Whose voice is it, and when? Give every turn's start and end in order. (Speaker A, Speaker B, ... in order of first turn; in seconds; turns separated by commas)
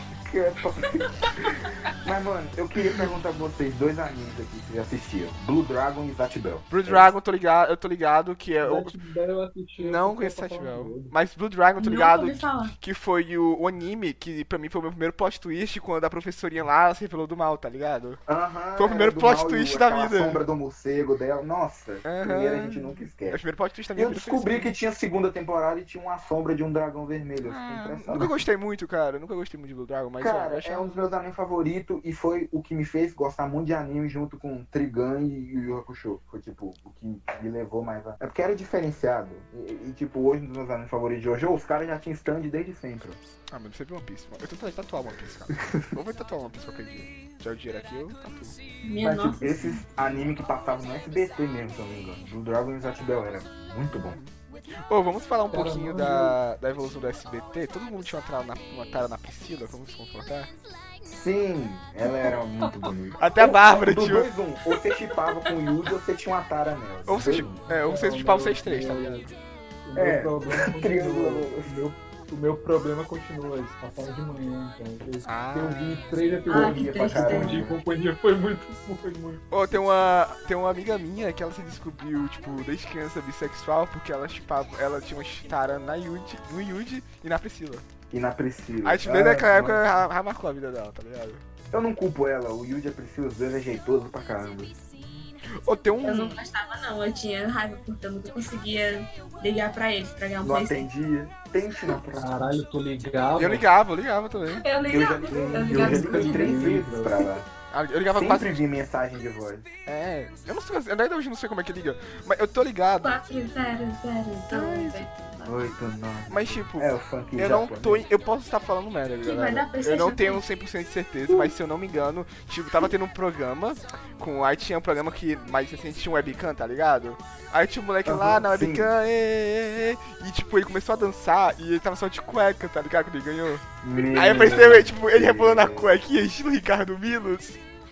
Speaker A: 0.1-7.1, Speaker B: 0.9-1.7, Speaker C: 6.7-8.9, Speaker D: 8.6-11.1, Speaker C: 9.8-18.2, Speaker B: 11.8-12.7, Speaker A: 18.3-23.4, Speaker C: 18.8-20.4, Speaker C: 22.0-24.7, Speaker A: 23.9-28.4, Speaker C: 27.4-31.1, Speaker A: 30.2-43.2, Speaker C: 43.5-48.5, Speaker B: 48.8-49.8, Speaker A: 49.0-54.2, Speaker C: 53.9-54.3, Speaker C: 54.8-60.5, Speaker D: 55.5-56.4, Speaker A: 61.0-67.6, Speaker C: 63.2-64.3, Speaker C: 67.1-69.3, Speaker D: 67.7-69.3, Speaker D: 69.9-79.4, Speaker A: 70.0-71.7, Speaker C: 75.2-76.2, Speaker B: 76.5-77.6, Speaker A: 76.5-77.8, Speaker C: 79.5-87.8, Speaker A: 88.1-89.8, Speaker C: 88.8-91.4, Speaker A: 91.7-94.8, Speaker C: 94.9-96.4, Speaker B: 96.0-100.9, Speaker A: 100.4-102.4, Speaker D: 102.1-103.6, Speaker C: 103.4-104.6, Speaker B: 104.6-106.6, Speaker A: 104.9-107.5, Speaker D: 105.3-107.3, Speaker C: 107.7-108.6, Speaker A: 108.1-109.7, Speaker C: 109.8-113.2, Speaker B: 113.0-115.7, Speaker C: 114.5-115.0, Speaker A: 115.4-118.0, Speaker C: 116.3-137.6, Speaker B: 119.2-120.4, Speaker A: 128.0-128.9, Speaker A: 133.8-136.0